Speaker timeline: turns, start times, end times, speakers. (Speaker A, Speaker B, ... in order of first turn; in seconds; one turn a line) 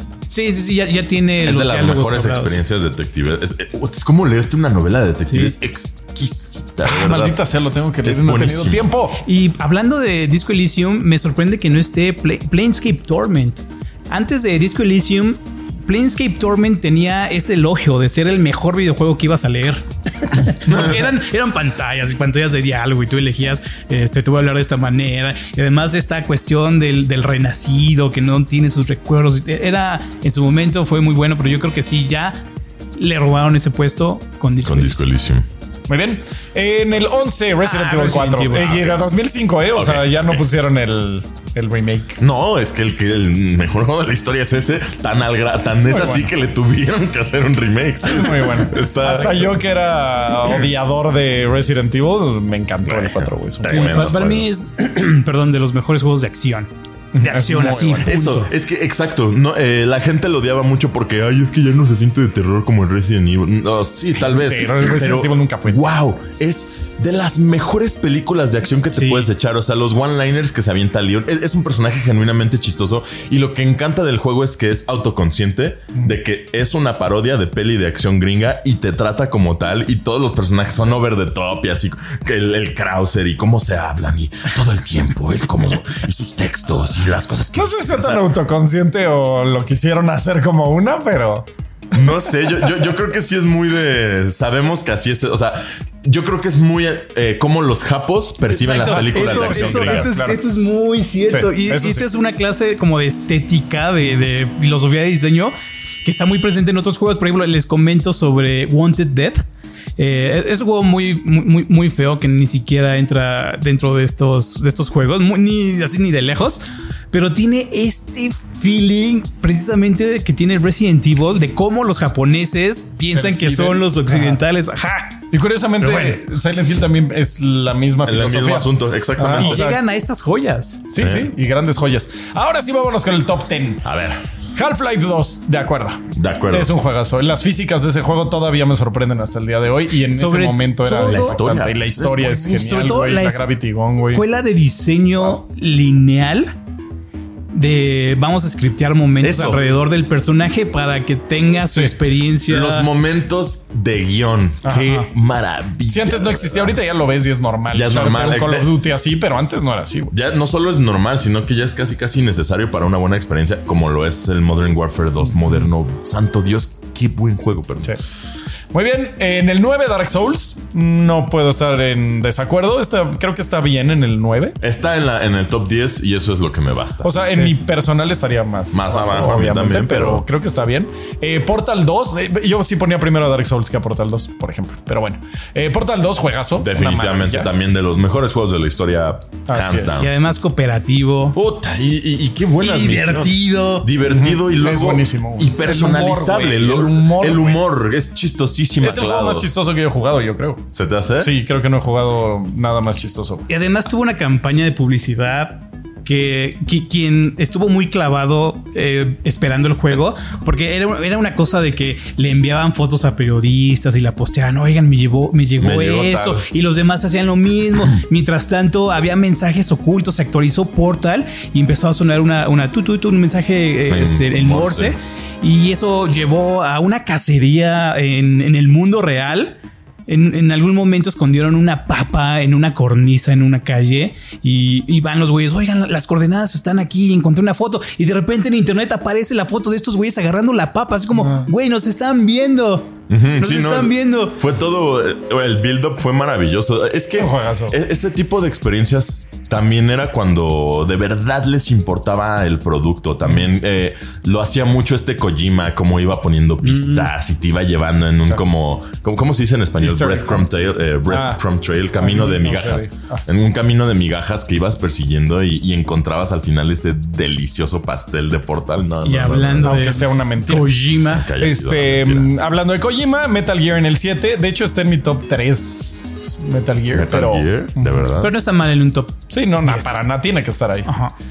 Speaker A: 0.3-2.6
Speaker B: 1.4-7.4
Speaker A: 5.3-5.5
Speaker C: 6.8-9.2
Speaker B: 8.0-9.0
Speaker A: 9.2-32.4
Speaker A: 33.0-35.0
Speaker B: 34.6-35.5
Speaker C: 35.9-42.2
Speaker A: 37.6-38.8
Speaker B: 38.6-39.0
Speaker B: 39.8-40.4
Speaker B: 42.2-49.6
Speaker C: 45.8-46.3
Speaker C: 48.0-54.1
Speaker B: 52.9-54.5
Speaker A: 53.7-58.5
Speaker C: 57.1-58.1
Speaker B: 58.0-88.3
Speaker C: 64.2-65.8
Speaker A: 69.0-69.3
Speaker C: 87.5-91.5
Speaker B: 91.9-100.1
Speaker A: 98.5-109.4
Speaker C: 98.7-100.4
Speaker C: 101.3-102.1
Speaker A: 110.0-125.2
Speaker C: 123.1-124.4
Speaker C: 125.3-129.8
Speaker A: 125.8-126.2
Speaker B: 128.1-129.6
Speaker A: 129.3-130.9
Speaker C: 130.9-133.8
Speaker B: 130.9-131.3
Speaker B: 133.8-134.2
Speaker C: 134.6-144.2
Speaker B: 136.1-136.7
Speaker A: 140.1-141.4
Speaker B: 141.1-143.0
Speaker A: 142.5-143.5
Speaker A: 144.1-146.6
Speaker A: 147.5-152.9
Speaker B: 149.2-149.6
Speaker B: 152.5-156.8
Speaker C: 154.7-155.1
Speaker C: 155.9-160.1
Speaker B: 157.7-158.7
Speaker B: 160.1-168.0
Speaker C: 168.7-174.6
Speaker B: 174.6-177.5
Speaker C: 177.0-187.5
Speaker B: 178.7-180.2
Speaker B: 186.6-190.1
Speaker C: 189.5-190.1
Speaker A: 190.0-191.4
Speaker B: 191.3-199.5
Speaker A: 192.6-193.9
Speaker C: 194.1-197.6
Speaker C: 198.8-200.6
Speaker B: 200.7-201.3
Speaker C: 201.2-203.5
Speaker A: 203.5-244.4
Speaker B: 215.6-216.5
Speaker B: 223.9-225.0
Speaker C: 241.2-241.5
Speaker B: 243.1-269.9
Speaker C: 247.2-247.8
Speaker A: 256.6-257.1
Speaker C: 259.8-260.5
Speaker C: 261.1-261.4
Speaker C: 262.0-263.2
Speaker A: 269.0-271.3
Speaker C: 269.6-270.8
Speaker B: 271.1-272.3
Speaker C: 271.4-278.0
Speaker B: 276.9-278.3
Speaker A: 278.2-279.9
Speaker C: 279.3-280.9
Speaker A: 280.9-281.1